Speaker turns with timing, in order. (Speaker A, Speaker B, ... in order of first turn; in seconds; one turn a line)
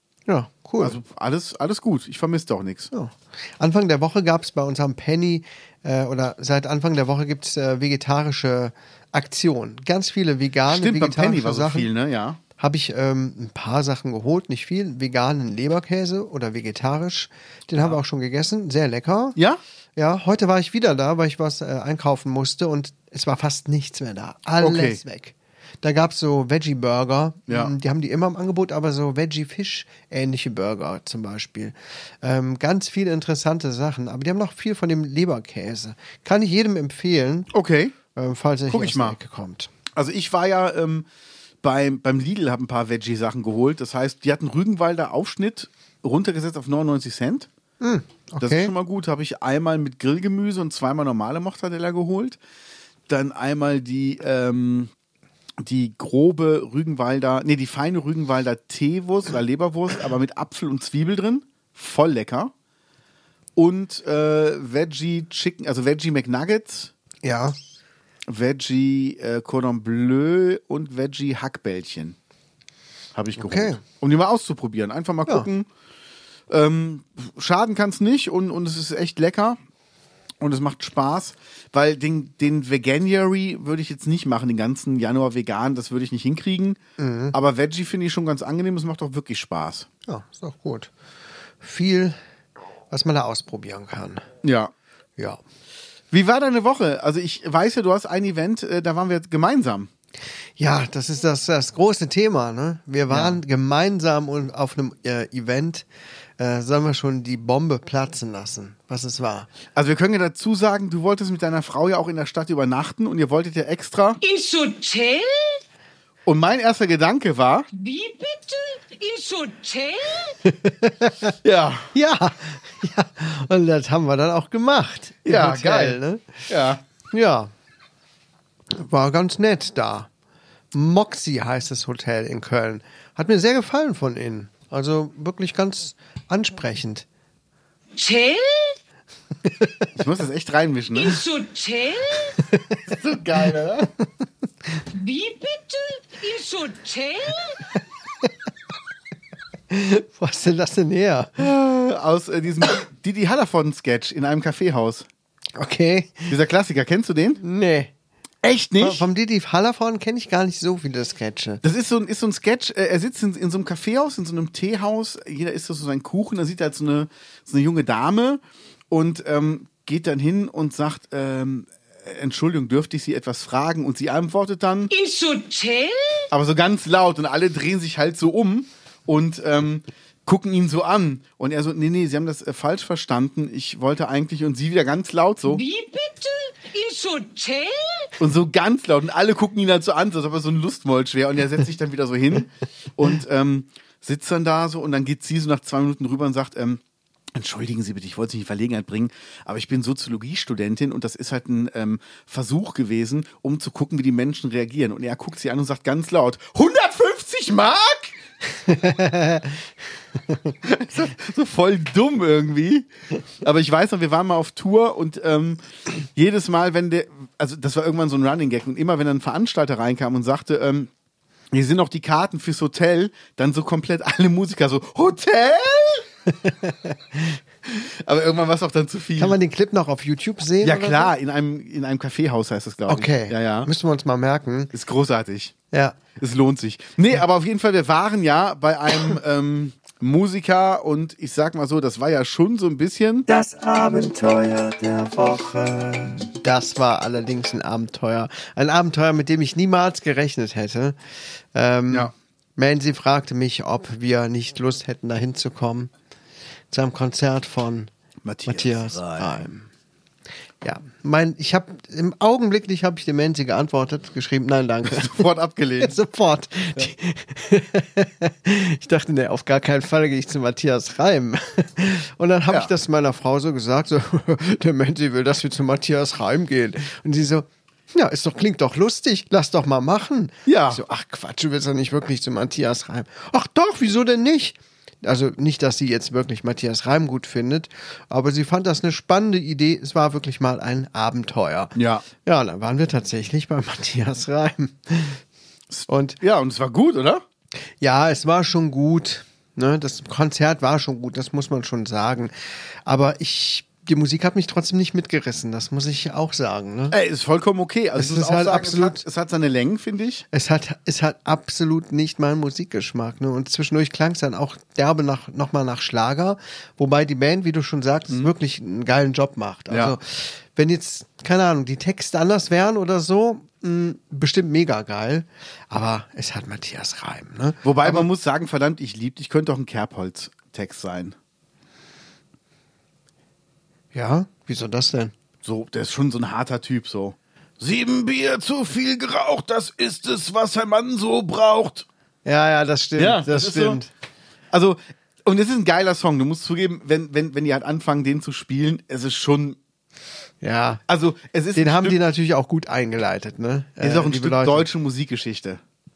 Speaker A: 0.3-1.0
Speaker B: 0.8-2.9
Speaker A: 2.9-11.9
Speaker B: 10.7-12.4
Speaker A: 12.6-19.4
Speaker A: 20.0-37.5
Speaker B: 24.6-25.0
Speaker B: 27.5-27.7
Speaker B: 37.5-38.0
Speaker A: 38.1-39.7
Speaker B: 38.7-39.2
Speaker B: 39.9-41.1
Speaker B: 41.6-47.5
Speaker A: 47.8-48.7
Speaker B: 48.4-52.4
Speaker B: 53.1-54.9
Speaker B: 55.6-62.5
Speaker B: 63.6-66.9
Speaker A: 67.2-67.6
Speaker B: 68.3-72.2
Speaker B: 73.2-75.7
Speaker A: 73.4-73.8
Speaker B: 76.5-79.6
Speaker B: 80.4-86.8
Speaker A: 87.0-87.4
Speaker B: 87.3-89.9
Speaker A: 90.1-90.9
Speaker A: 91.6-92.2
Speaker A: 92.9-94.2
Speaker B: 94.4-94.7
Speaker B: 96.1-99.9
Speaker A: 100.6-105.9
Speaker B: 103.1-103.4
Speaker A: 106.4-109.5
Speaker B: 109.8-114.2
Speaker C: 114.2-115.6
Speaker B: 116.3-117.7
Speaker C: 117.7-120.4
Speaker A: 120.5-121.3
Speaker B: 121.4-121.9
Speaker A: 121.9-126.3
Speaker B: 125.2-126.8
Speaker A: 127.1-127.5
Speaker A: 128.7-130.1
Speaker A: 130.7-137.1
Speaker C: 138.0-138.8
Speaker B: 140.0-141.2
Speaker C: 140.9-142.4
Speaker A: 142.5-142.8
Speaker B: 142.9-143.9
Speaker C: 144.9-147.6
Speaker A: 149.7-151.4
Speaker B: 151.4-155.1
Speaker A: 155.6-156.3
Speaker B: 156.3-157.4
Speaker A: 157.4-157.9
Speaker B: 158.4-159.1
Speaker A: 158.8-161.6
Speaker B: 161.6-174.9
Speaker C: 174.9-176.3
Speaker B: 176.3-185.6
Speaker C: 185.4-188.1
Speaker B: 188.2-196.8
Speaker B: 197.3-208.2
Speaker A: 208.7-209.6
Speaker B: 210.6-212.9
Speaker B: 213.4-215.6
Speaker B: 216.1-220.9
Speaker B: 221.5-226.1
Speaker A: 226.3-227.4
Speaker B: 227.7-229.4
Speaker A: 229.2-231.1
Speaker B: 230.6-233.7
Speaker A: 232.9-234.7
Speaker B: 234.7-235.5
Speaker A: 235.7-236.0
Speaker B: 236.2-243.3
Speaker A: 243.3-251.0
Speaker A: 251.5-255.9
Speaker A: 256.7-257.9
Speaker B: 258.2-259.4
Speaker A: 258.4-259.7
Speaker A: 260.6-265.3
Speaker B: 264.9-266.0
Speaker A: 265.8-295.2
Speaker B: 280.4-280.8
Speaker B: 291.8-292.1
Speaker B: 295.7-297.2
Speaker A: 295.9-296.2
Speaker A: 297.8-302.3
Speaker A: 302.9-307.0
Speaker B: 306.9-310.2
Speaker A: 308.0-309.0
Speaker A: 310.3-328.1
Speaker B: 319.7-320.0
Speaker B: 327.6-331.2
Speaker A: 333.9-335.1
Speaker B: 335.4-341.9
Speaker A: 342.2-343.9
Speaker B: 343.0-343.8
Speaker B: 344.5-349.6
Speaker A: 350.4-350.8
Speaker B: 350.9-352.0
Speaker A: 351.6-354.7
Speaker B: 353.8-355.6